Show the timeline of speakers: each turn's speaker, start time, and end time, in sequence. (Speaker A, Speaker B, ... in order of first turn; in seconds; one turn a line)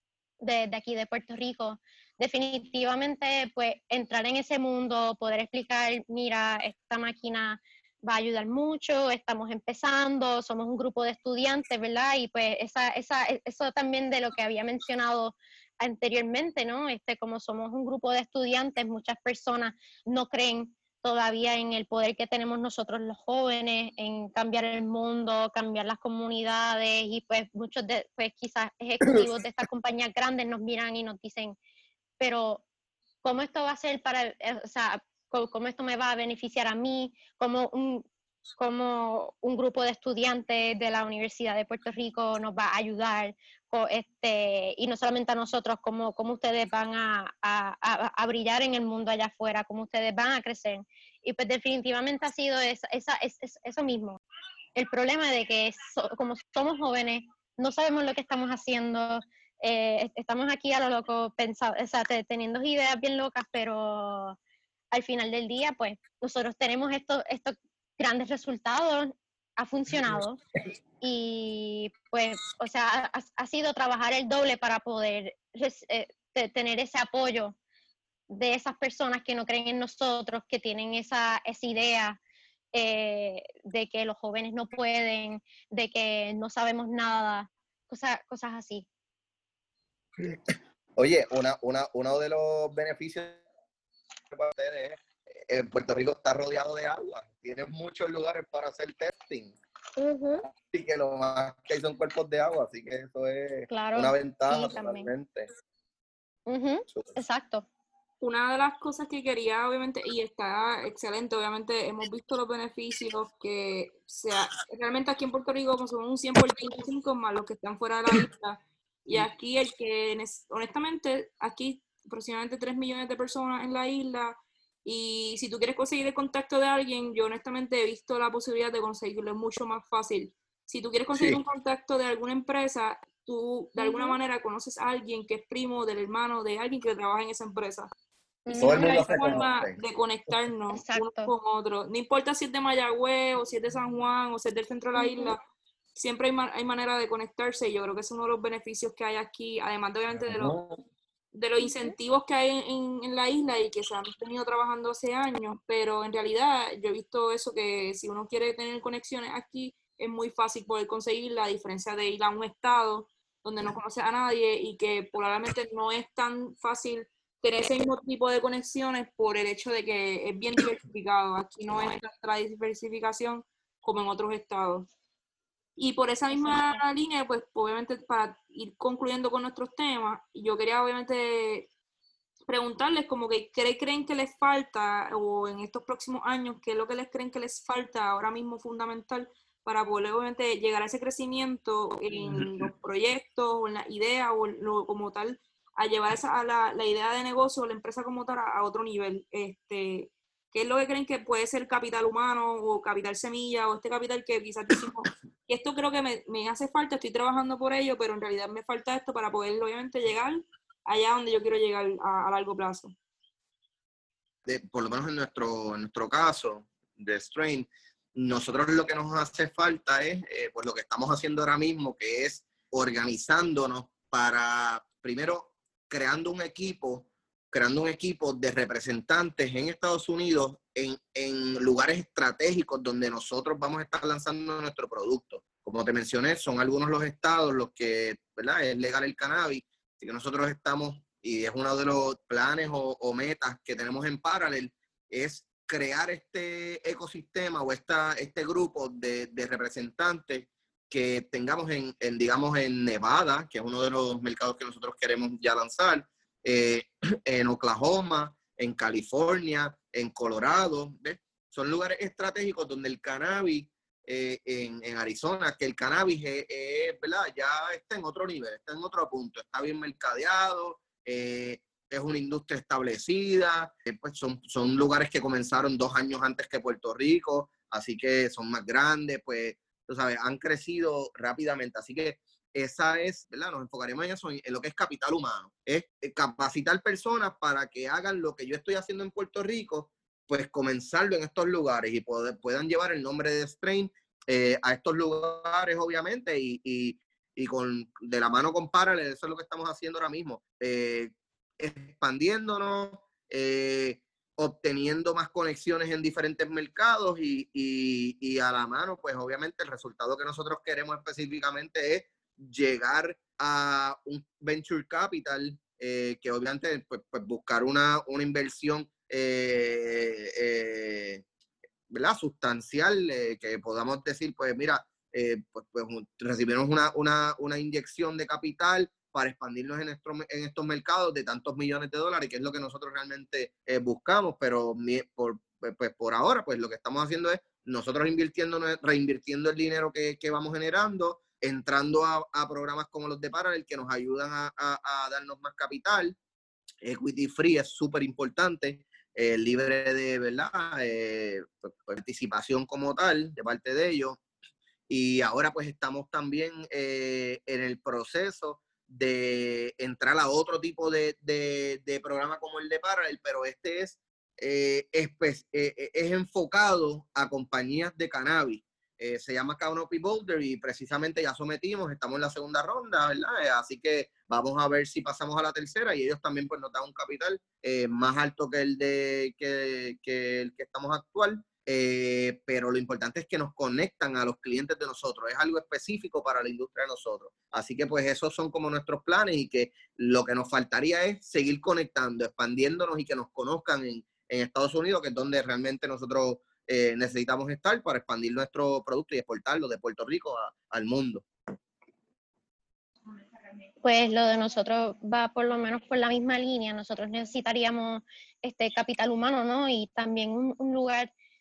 Speaker A: 0.4-31.6
Speaker A: 32.2-32.6
Speaker A: 33.2-38.0
Speaker A: 38.6-54.2
Speaker A: 54.8-64.4
Speaker A: 64.9-70.4
Speaker A: 71.0-77.6
Speaker A: 78.3-82.2
Speaker A: 82.7-88.9
Speaker B: 90.2-93.4
Speaker B: 94.3-99.6
Speaker A: 100.0-100.5
Speaker B: 100.6-105.5
Speaker A: 103.7-105.1
Speaker A: 106.5-107.7
Speaker C: 108.2-137.9
Speaker B: 131.1-131.4
Speaker A: 133.8-134.2
Speaker A: 138.5-139.4
Speaker C: 138.5-145.4
Speaker B: 138.6-139.8
Speaker A: 140.7-141.3
Speaker A: 145.0-145.3
Speaker C: 146.0-150.6
Speaker B: 150.2-150.8
Speaker C: 151.3-174.9
Speaker C: 175.8-181.7
Speaker A: 176.3-176.8
Speaker C: 182.5-212.9
Speaker B: 192.2-192.7
Speaker B: 214.5-321.2
Speaker B: 321.9-346.2
Speaker B: 346.8-354.2
Speaker B: 354.9-401.2
Speaker A: 403.8-411.1